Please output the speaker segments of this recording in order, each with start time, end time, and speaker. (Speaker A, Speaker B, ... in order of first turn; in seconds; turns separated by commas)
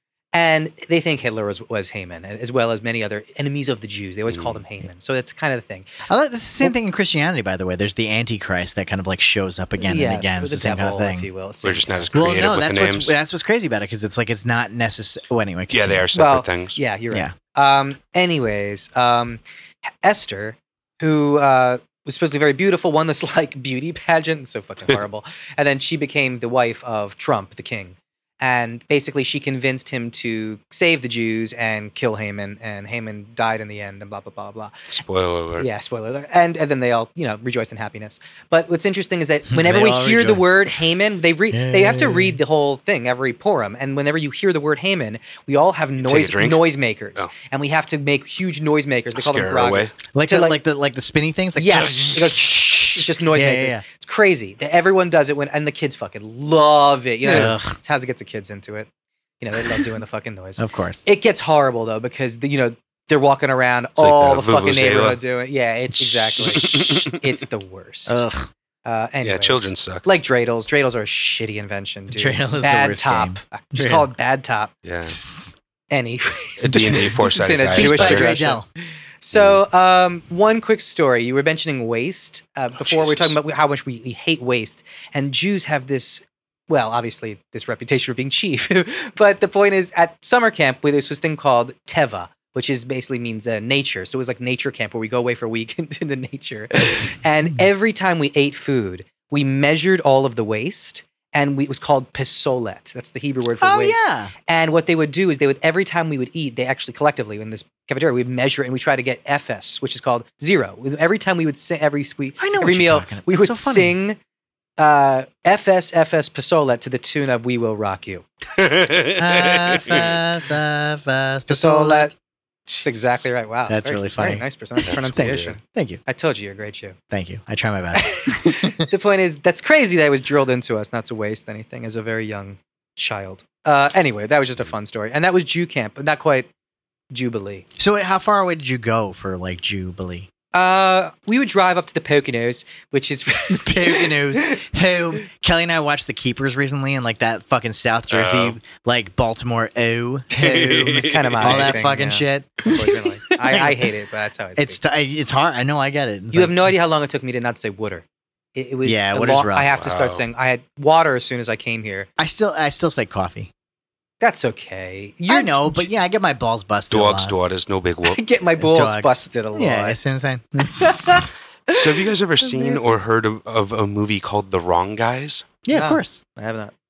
Speaker A: 0.3-6.0, Speaker B: 4.3-4.6, Speaker C: 6.1-11.3, Speaker A: 9.8-12.2, Speaker B: 11.6-13.1, Speaker C: 12.1-16.1, Speaker B: 15.7-16.8, Speaker A: 16.1-19.4, Speaker A: 20.0-34.9, Speaker B: 34.9-35.7, Speaker A: 35.6-50.6, Speaker C: 39.5-40.6, Speaker C: 41.5-42.4, Speaker B: 46.0-47.3, Speaker B: 49.1-49.9, Speaker C: 50.1-53.8, Speaker A: 51.5-58.9, Speaker C: 57.2-57.8, Speaker B: 57.3-57.5, Speaker A: 59.4-68.2, Speaker C: 60.6-61.0, Speaker B: 64.0-65.2, Speaker B: 66.4-67.3, Speaker C: 68.1-68.5, Speaker A: 68.8-74.7, Speaker B: 69.2-70.0, Speaker C: 72.1-74.1, Speaker B: 74.8-75.2, Speaker C: 75.1-75.5, Speaker A: 75.9-78.6, Speaker B: 76.6-78.3, Speaker C: 76.7-77.1, Speaker C: 77.7-78.7, Speaker A: 79.2-114.2, Speaker B: 79.3-79.6, Speaker B: 82.8-83.3, Speaker C: 103.6-104.3, Speaker C: 112.4-114.0, Speaker A: 114.8-118.2, Speaker B: 118.5-120.2, Speaker C: 119.2-122.1, Speaker A: 121.5-122.1, Speaker C: 122.7-126.0, Speaker A: 122.8-127.0, Speaker B: 124.8-125.5, Speaker C: 127.1-128.8, Speaker A: 127.9-136.5, Speaker A: 137.1-137.6, Speaker C: 137.8-140.3, Speaker A: 140.5-144.6, Speaker C: 143.5-153.8, Speaker B: 148.1-148.6, Speaker A: 150.3-154.8, Speaker B: 150.4-151.9, Speaker C: 154.6-156.7, Speaker A: 156.3-158.0, Speaker A: 158.5-162.1, Speaker C: 158.8-159.7, Speaker B: 159.7-160.2, Speaker C: 162.2-163.5, Speaker A: 164.2-165.9, Speaker C: 165.3-167.3, Speaker B: 166.9-168.2, Speaker A: 168.0-170.0, Speaker C: 168.6-171.3, Speaker A: 170.7-172.9, Speaker B: 171.7-175.5, Speaker C: 175.7-176.2, Speaker A: 175.7-176.7